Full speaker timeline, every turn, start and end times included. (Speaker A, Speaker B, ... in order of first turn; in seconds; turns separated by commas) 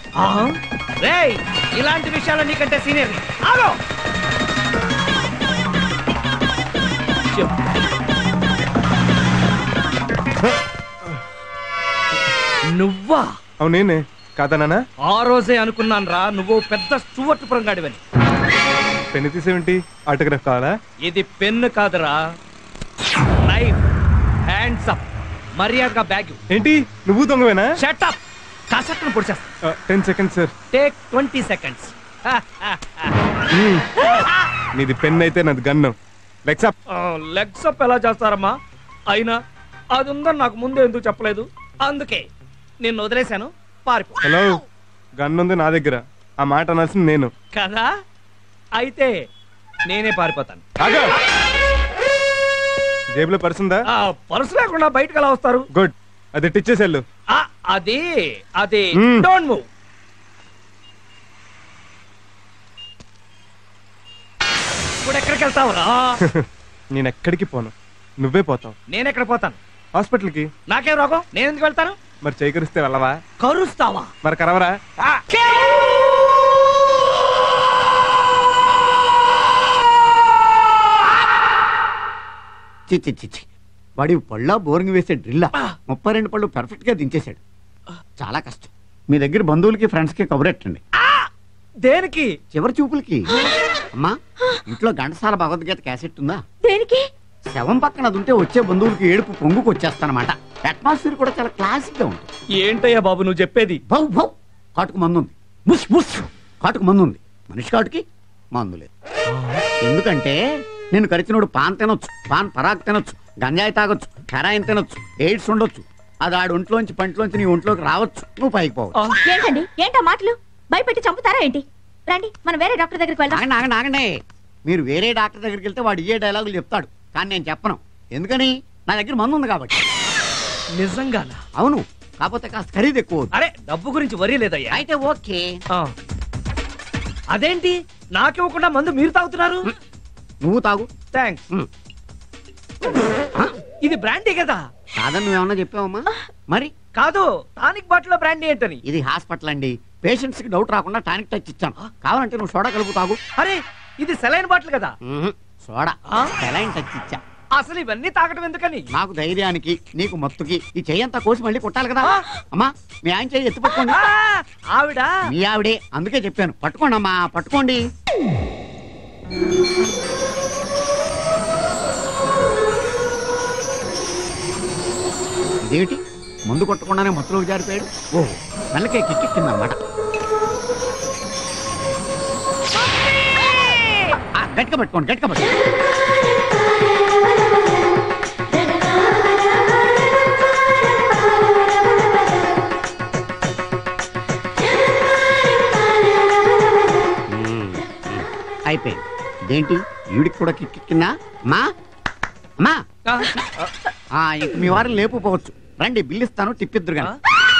Speaker A: 0.2-3.8, Speaker A: 7.3-7.6, Speaker A: 12.7-13.3, Speaker B: 13.6-14.8, Speaker A: 15.0-18.0, Speaker B: 19.1-20.7, Speaker A: 21.0-22.2, Speaker A: 23.4-23.8, Speaker A: 24.5-25.0, Speaker A: 25.6-26.4, Speaker B: 26.5-27.8, Speaker A: 27.8-28.2, Speaker A: 28.7-29.5, Speaker B: 29.6-30.5, Speaker A: 30.7-33.1, Speaker B: 33.5-33.9, Speaker B: 34.8-36.0, Speaker B: 36.5-36.7, Speaker A: 36.9-38.5, Speaker A: 39.1-39.4, Speaker A: 39.9-42.3, Speaker A: 42.8-44.2, Speaker B: 44.2-44.6, Speaker B: 45.2-47.3, Speaker A: 47.5-47.9, Speaker A: 48.8-49.1, Speaker A: 49.9-50.7, Speaker B: 50.8-51.1, Speaker B: 53.1-53.9, Speaker A: 53.9-55.6, Speaker B: 55.7-57.0, Speaker A: 57.3-58.0, Speaker A: 58.6-59.6, Speaker B: 59.0-59.3, Speaker A: 65.0-66.1, Speaker B: 66.9-68.7, Speaker A: 68.9-69.6, Speaker B: 70.0-70.5, Speaker A: 70.7-72.0, Speaker B: 72.2-73.2, Speaker A: 73.4-74.1, Speaker B: 74.2-74.8, Speaker A: 75.2-75.6, Speaker C: 82.9-83.5, Speaker C: 84.0-87.4, Speaker C: 88.2-90.8, Speaker A: 91.8-92.3, Speaker C: 92.5-93.3, Speaker C: 93.9-96.4, Speaker D: 96.6-97.1, Speaker C: 97.5-102.3, Speaker A: 102.6-103.8, Speaker C: 103.9-108.0, Speaker C: 108.5-108.9, Speaker A: 109.3-109.6, Speaker C: 109.8-110.4, Speaker C: 110.9-119.0, Speaker A: 119.0-119.2, Speaker D: 119.2-123.4, Speaker C: 123.3-124.1, Speaker C: 124.7-129.8, Speaker A: 130.8-131.4, Speaker C: 131.6-133.3, Speaker A: 133.3-134.8, Speaker C: 134.7-135.6, Speaker A: 137.3-139.7, Speaker C: 140.4-140.9, Speaker A: 141.1-141.4, Speaker A: 143.8-144.6, Speaker C: 145.0-146.7, Speaker A: 146.9-148.8, Speaker C: 148.8-153.2, Speaker A: 153.4-154.9, Speaker C: 155.0-157.2, Speaker A: 157.6-158.8, Speaker C: 158.9-164.0, Speaker A: 163.7-165.1, Speaker C: 165.2-167.8, Speaker C: 175.7-178.1, Speaker C: 178.7-179.8, Speaker C: 184.3-185.5, Speaker C: 197.3-201.7, Speaker A: 203.1-203.3, Speaker C: 204.2-207.2